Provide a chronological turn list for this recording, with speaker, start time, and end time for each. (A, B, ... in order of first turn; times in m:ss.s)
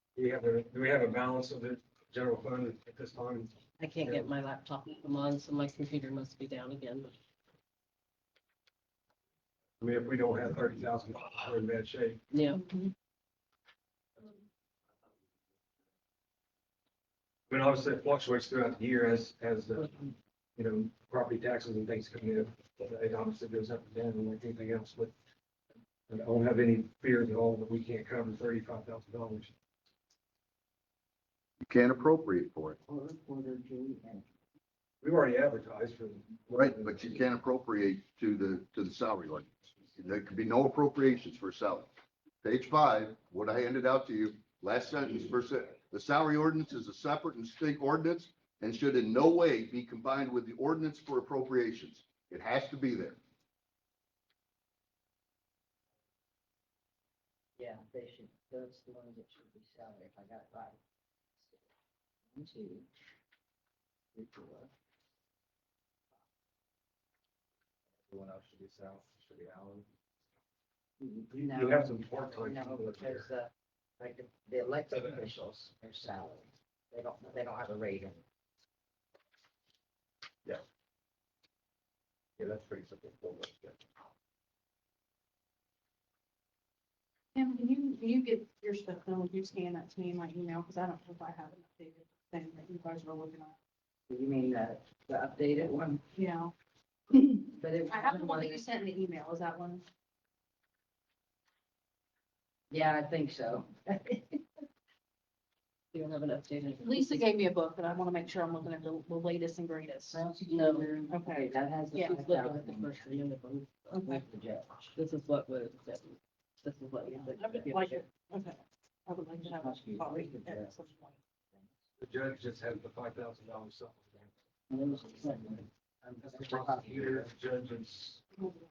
0:00.2-0:04.3 A
0:03.8-0:07.2 B
0:09.8-0:12.2 A
0:12.3-0:12.6 B
0:17.5-0:25.1 A
0:19.8-0:20.1 B
0:26.1-0:29.5 A
0:31.6-0:32.8 C
0:32.9-0:34.3 D
0:35.0-0:37.0 A
0:36.5-0:41.9 C
0:42.4-0:53.2 C
0:57.6-1:00.8 D
1:01.4-1:01.7 D
1:02.3-1:02.9 D
1:04.2-1:04.6 D
1:08.1-1:09.9 E
1:11.0-1:18.2 D
1:11.3-1:13.3 A
1:22.4-1:23.9 E
1:27.4-1:33.6 F
1:34.1-1:36.0 D
1:36.2-1:36.5 F
1:37.1-1:38.7 D
1:37.9-1:39.8 F
1:42.7-1:44.4 D
1:45.9-1:47.2 B
1:46.8-1:50.2 F
1:50.1-1:53.2 D
1:50.5-1:51.0 B
1:51.1-1:52.2 F
1:52.0-1:54.2 B
1:53.9-1:54.2 F
1:54.0-1:55.0 D
1:55.0-1:57.8 B
1:57.1-2:01.2 F
1:57.3-1:58.0 D
1:59.4-2:00.7 D
2:02.0-2:04.3 A
2:04.7-2:05.7 D
2:06.0-2:08.3 A
2:06.4-2:07.2 D